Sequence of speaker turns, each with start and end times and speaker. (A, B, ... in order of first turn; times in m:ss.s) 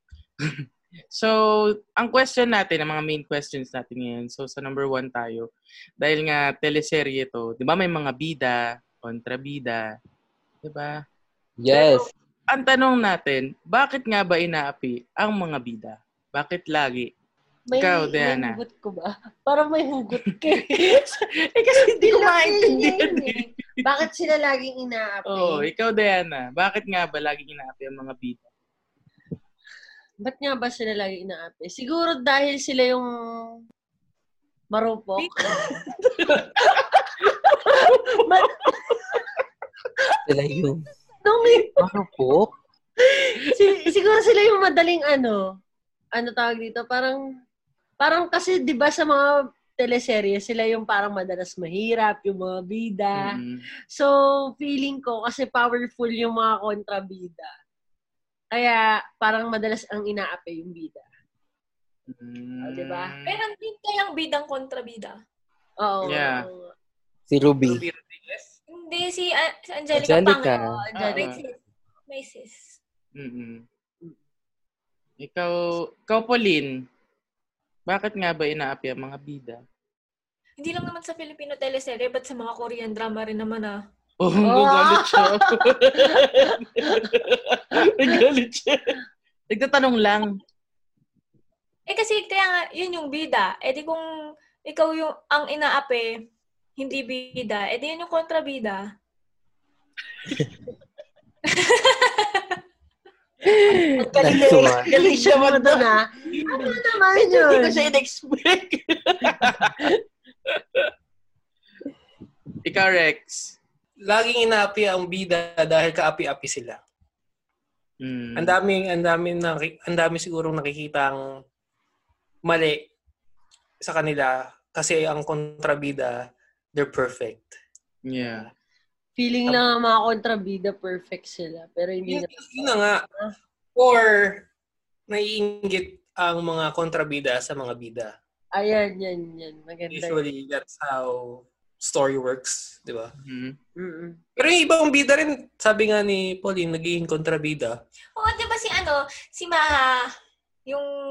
0:00.4-0:05.5 A
0:06.0-0:10.0 A
0:10.6-0:11.0 A
0:11.6-0:12.1 B
0:11.7-0:12.0 C
0:12.5-0:17.1 A
0:17.7-0:21.2 C
0:17.8-0:18.6 A
0:20.7-0:23.7 A
0:21.7-0:25.6 C
0:25.3-0:28.5 A
0:30.2-0:33.6 C
0:34.7-0:39.4 C
0:36.2-0:36.5 A
0:40.2-0:40.9 B
0:41.2-0:41.9 C
0:41.8-0:42.5 B
0:43.0-0:45.6 C
0:46.1-0:47.2 C
0:48.0-0:53.4 C
0:53.1-0:53.6 A
0:53.9-0:57.5 C
0:58.5-1:01.0 C
1:02.1-1:03.4 A
1:02.6-1:03.1 C
1:03.2-1:05.2 D
1:05.8-1:06.7 C
1:06.0-1:06.5 A
1:07.3-1:07.8 B
1:07.6-1:08.5 E
1:08.7-1:11.6 D
1:09.9-1:10.7 B
1:10.8-1:11.4 C
1:11.0-1:11.4 A
1:12.1-1:12.8 D
1:13.2-1:13.6 A
1:15.2-1:16.8 A
1:17.9-1:19.6 A
1:20.6-1:23.8 D
1:24.2-1:29.0 A
1:24.4-1:27.1 C
1:29.5-1:30.4 A
1:31.9-1:34.0 D
1:34.6-1:36.2 D
1:36.8-1:38.9 D
1:41.5-1:42.6 D
1:43.4-1:44.9 B
1:44.0-1:47.9 C
1:44.2-1:50.0 A
1:50.5-1:50.9 A
1:52.6-1:53.5 A
1:54.1-1:56.8 E
1:58.0-1:58.6 A
1:58.4-2:01.2 E
2:02.4-2:02.9 E
2:03.8-2:06.2 E
2:06.7-2:07.5 E
2:08.1-2:08.4 A
2:08.2-2:08.5 E
2:09.2-2:13.3 C
2:12.1-2:13.0 E
2:13.8-2:14.4 E
2:15.1-2:18.1 E
2:18.5-2:20.2 C
2:19.9-2:23.1 E
2:23.2-2:23.6 A
2:23.8-2:24.2 C
2:24.4-2:27.7 E
2:28.2-2:30.1 D